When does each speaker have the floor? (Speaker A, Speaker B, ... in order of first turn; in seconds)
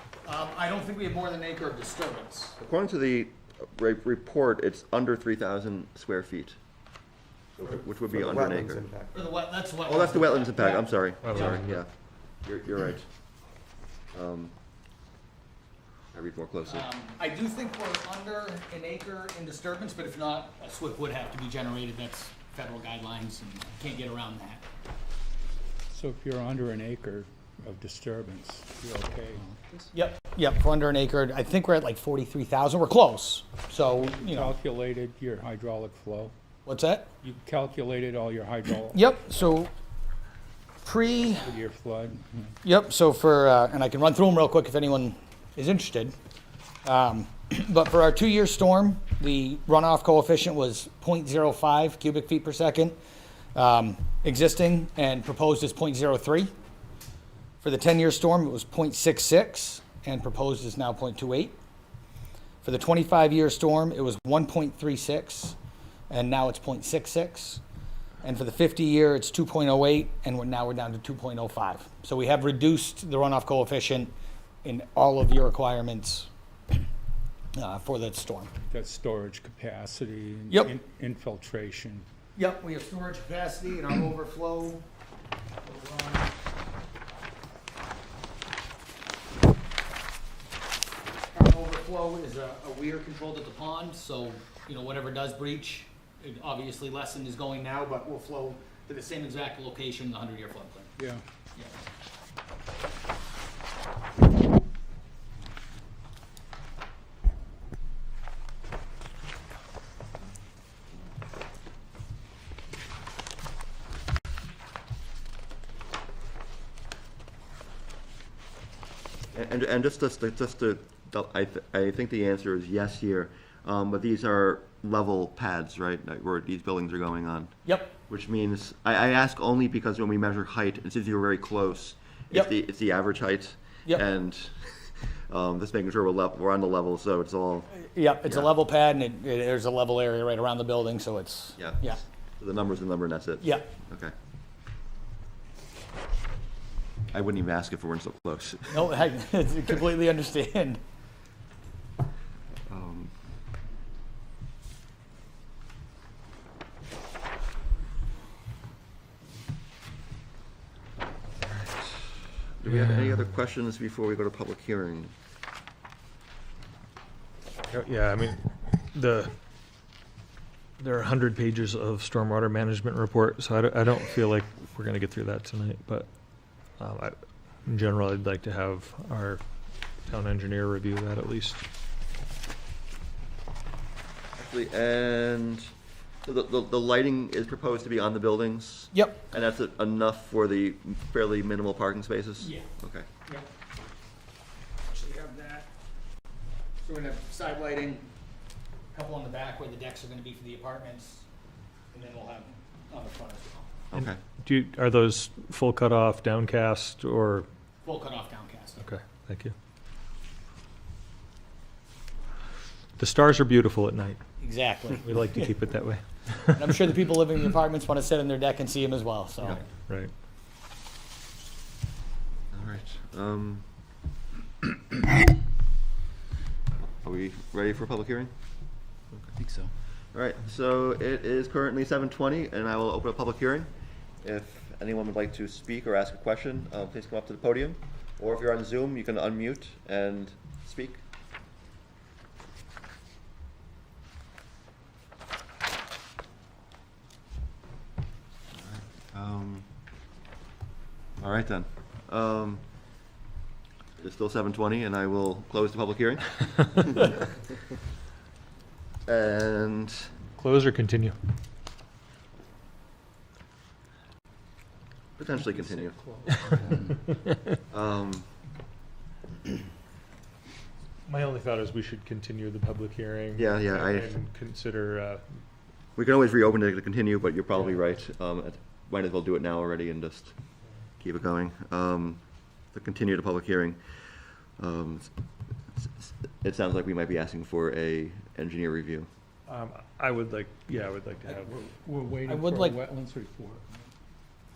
Speaker A: 0.2-2.6, 9.1-11.6, 16.7-24.6, 29.9-34.5, 36.6-37.1, 38.9-39.7, 40.8-41.5, 42.6-46.1, 46.8-53.0, 53.5-56.5, 57.6-61.6, 62.6-65.6, 66.1-67.6, 68.2-74.1, 74.6-76.3, 77.5-78.5, 80.5-80.7, 82.3-84.8, 85.6-86.3, 91.3-101.0, 127.6-127.9, 137.7-142.0, 143.4-143.7, 148.7-150.8, 188.9-189.2, 192.4-192.7, 194.9-195.7, 196.8-198.1, 198.9-201.2, 201.9-203.7, 207.8-208.8, 214.4-215.5, 216.5-219.6, 292.3-292.8
Speaker B: 2.6-6.6, 7.6-8.9, 9.8-11.9, 12.4-13.1, 14.1-14.5, 16.1-16.9, 119.3-137.7, 138.2-138.5, 141.6-144.1, 147.1-149.0, 152.7-153.1, 161.4-162.0, 162.6-165.1, 184.4-185.7, 186.2-193.1, 203.9-204.2, 219.4-219.6, 222.5-223.6, 227.0-228.3, 230.1-233.7, 234.2-241.0, 248.5-249.7, 251.2-252.6, 254.0-257.2, 259.1-260.1, 265.2-265.9, 267.7-268.3, 273.4-274.1, 275.9-280.3, 281.0-282.2, 282.7-283.8, 284.6-285.1, 285.7-289.1
Speaker C: 11.2-11.8, 162.6-163.2, 167.7-169.3, 170.8-176.1, 176.8-177.1, 177.7-179.4, 180.1-181.6, 203.9-207.5, 208.8-209.5, 213.0-214.2, 215.0-216.7, 260.4-261.1, 271.1-275.2, 289.5-291.5
Speaker D: 25.9-29.5, 33.9-36.3, 37.2-39.1, 41.1-42.5, 78.6-82.0, 265.5-266.7, 291.2-293.9